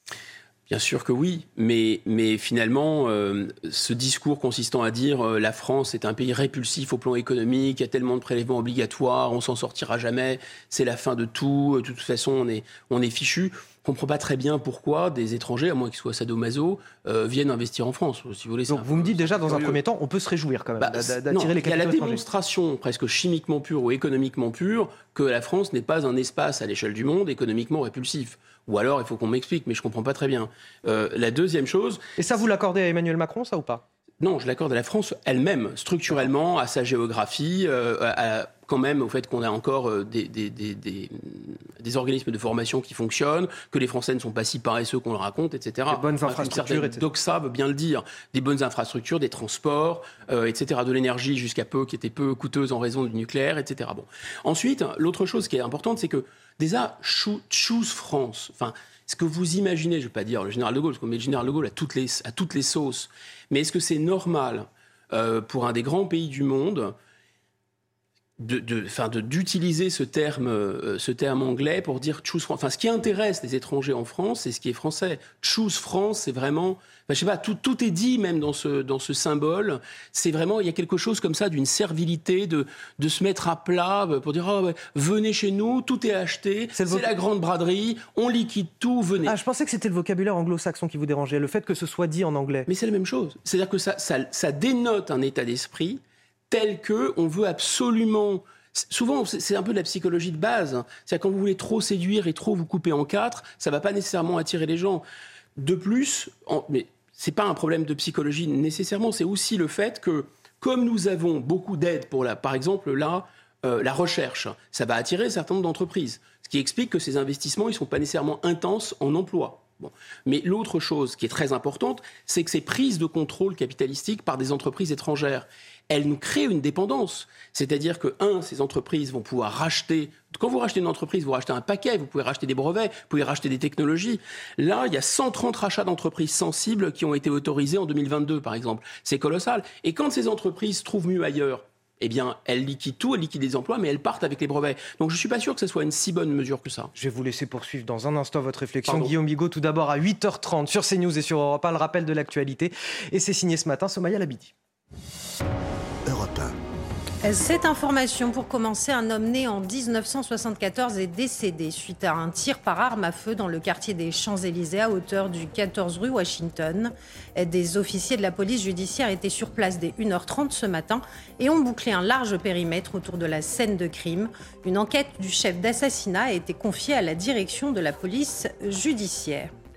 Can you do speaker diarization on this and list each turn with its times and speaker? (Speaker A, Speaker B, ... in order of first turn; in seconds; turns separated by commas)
Speaker A: 0.7-19.8, Speaker B: 18.7-22.2, Speaker A: 20.8-32.0, Speaker B: 32.2-33.8, Speaker A: 34.2-66.9, Speaker B: 45.9-47.0, Speaker A: 68.4-89.3, Speaker B: 86.8-87.1, Speaker B: 89.2-92.7, Speaker A: 92.7-105.0, Speaker A: 105.6-146.9, Speaker B: 146.9-154.5, Speaker B: 156.1-156.4, Speaker C: 157.2-179.5